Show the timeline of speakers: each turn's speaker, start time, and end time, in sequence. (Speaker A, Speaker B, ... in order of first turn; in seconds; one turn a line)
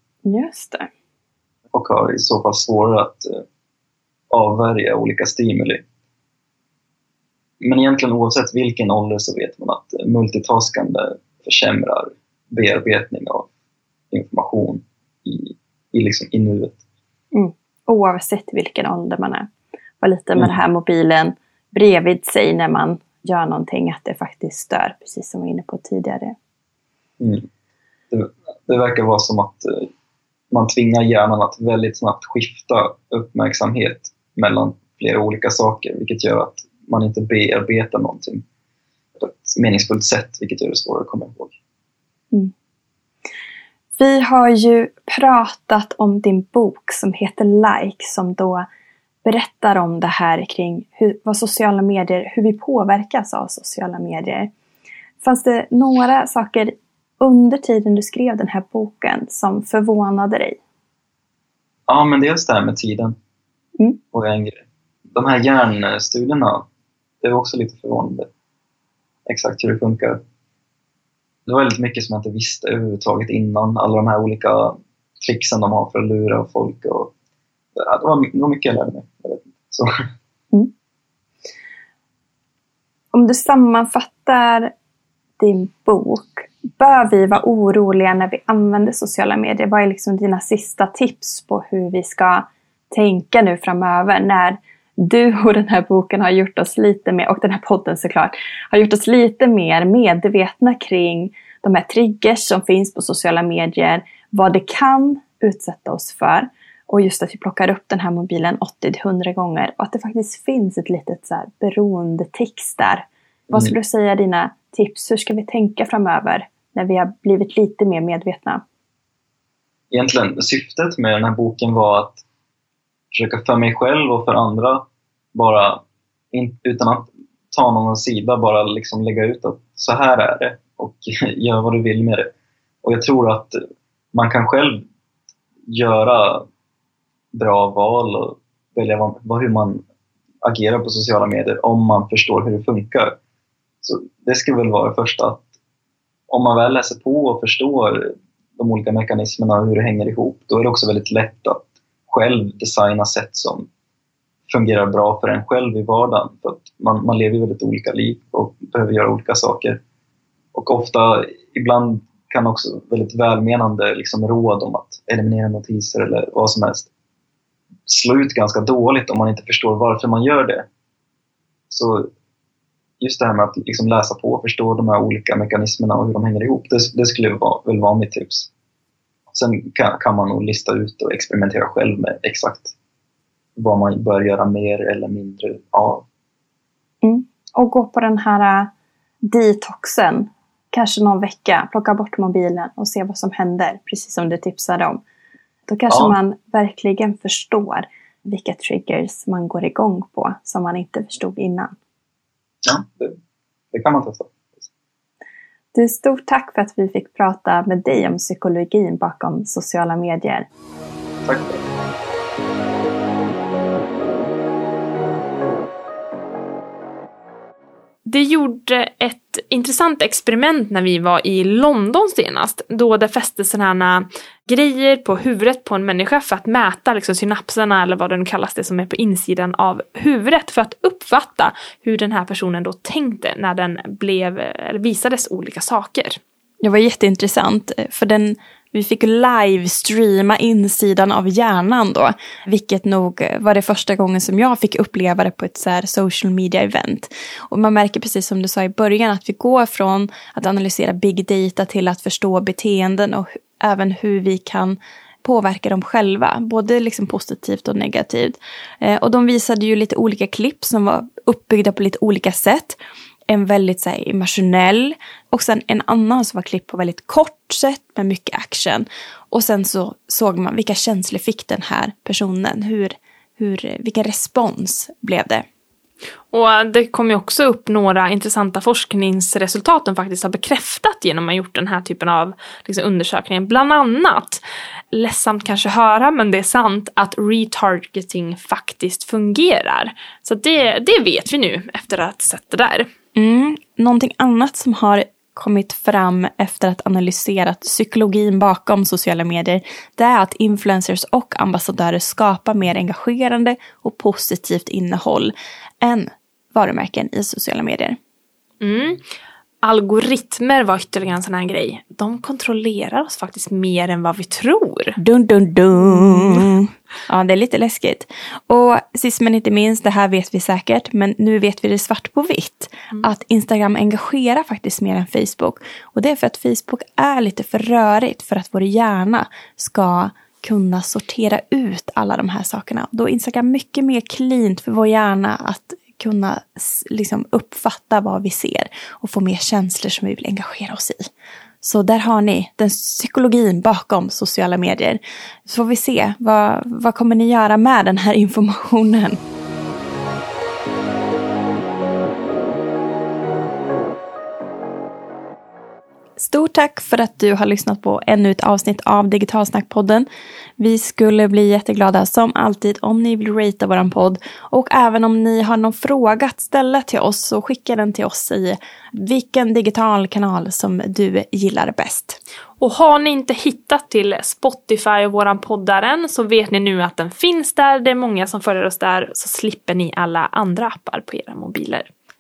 Speaker A: 0.3-0.9
Speaker B: 1.7-3.4
Speaker B: 4.3-5.8
Speaker B: 7.6-13.5
Speaker B: 14.1-16.8
Speaker A: 17.3-19.5
Speaker A: 20.0-26.4
Speaker B: 27.2-27.5
Speaker B: 28.1-29.9
Speaker B: 30.5-38.4
Speaker B: 39.2-41.5
Speaker A: 44.0-48.7
Speaker A: 49.2-54.5
Speaker A: 55.2-60.6
Speaker B: 61.9-63.1
Speaker B: 64.1-66.7
Speaker B: 67.2-68.3
Speaker B: 69.3-70.2
Speaker B: 71.5-77.1
Speaker B: 77.8-80.0
Speaker A: 83.1-84.7
Speaker A: 85.4-118.6
Speaker B: 113.5-113.8
Speaker B: 119.9-122.2
Speaker B: 123.1-132.3
Speaker B: 132.8-133.6
Speaker B: 134.1-134.8
Speaker B: 135.7-136.5
Speaker B: 137.3-139.8
Speaker B: 140.4-143.2
Speaker B: 143.8-145.4
Speaker B: 146.3-153.7
Speaker B: 154.5-159.8
Speaker B: 160.5-166.9
Speaker B: 167.9-170.7
Speaker B: 171.7-172.1
Speaker B: 173.0-178.5
Speaker B: 179.3-182.7
Speaker B: 183.6-186.1
Speaker A: 187.0-188.7
Speaker A: 189.3-195.0
Speaker A: 195.7-201.8
Speaker B: 195.9-196.1
Speaker B: 202.6-203.2
Speaker B: 203.7-204.7
Speaker A: 205.8-210.5
Speaker B: 211.2-211.6
Speaker C: 218.1-236.2
Speaker A: 236.6-262.8
Speaker A: 263.3-275.4
Speaker C: 276.3-292.9
Speaker A: 293.1-308.0
Speaker C: 308.6-309.0
Speaker C: 309.6-315.0
Speaker A: 315.0-341.1
Speaker C: 315.8-316.5
Speaker A: 341.6-349.2
Speaker A: 356.2-360.1
Speaker A: 360.6-372.2
Speaker C: 372.6-381.9